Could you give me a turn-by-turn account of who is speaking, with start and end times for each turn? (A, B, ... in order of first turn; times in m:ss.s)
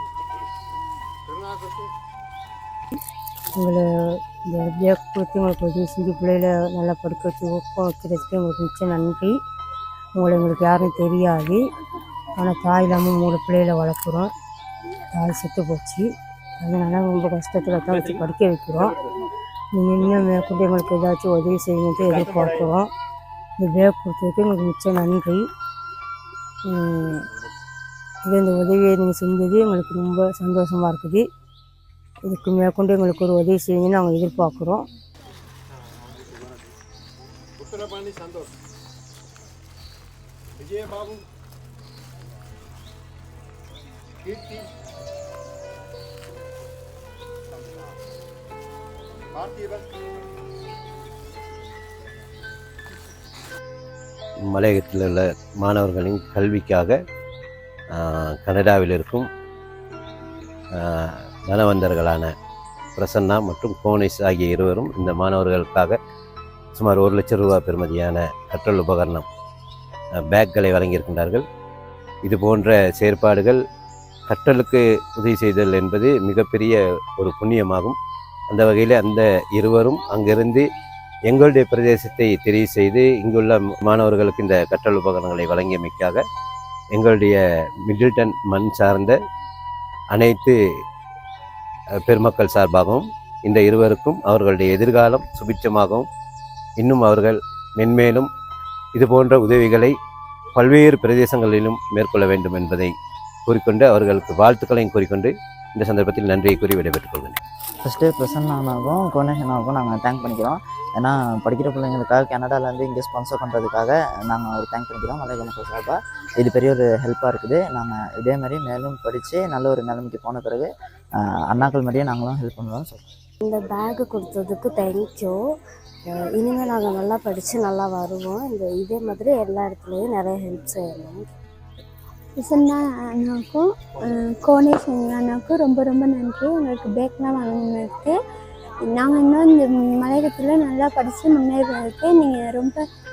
0:01.3-0:01.9 A
0:03.6-0:09.4 B
0:10.2-0:11.6 B
0:12.4-0:14.3 B
0:15.1-0:16.1 B
0:16.6-0:19.0 B
0:19.8-0:22.9 B
0:23.6-0:25.4 B
0:26.7-0:27.3 B
0:28.2-0:31.3 B
0:32.2-0:34.8 B
0:37.6-0:38.5 A
0:40.6-0:41.2 A
0:44.2-0:44.7 A
0:49.4-0:49.9 A
0:54.5-0:57.0 C
0:57.9-0:59.3 C
1:00.8-1:02.3 C
1:03.0-1:06.0 C
1:06.8-1:09.3 C
1:10.2-1:11.4 C
1:12.2-1:13.6 C
1:14.3-1:18.0 C
1:18.5-1:20.7 C
1:21.3-1:26.2 C
1:27.0-1:29.2 C
1:30.1-1:30.6 C
1:32.0-1:36.1 C
1:36.8-1:38.3 C
1:38.9-1:40.0 C
1:40.6-1:42.9 C
1:43.5-1:47.4 C
1:47.8-2:03.0 D
2:03.4-2:05.6 E
2:06.1-2:11.3 E
2:12.4-2:18.2 F
2:18.8-2:22.9 F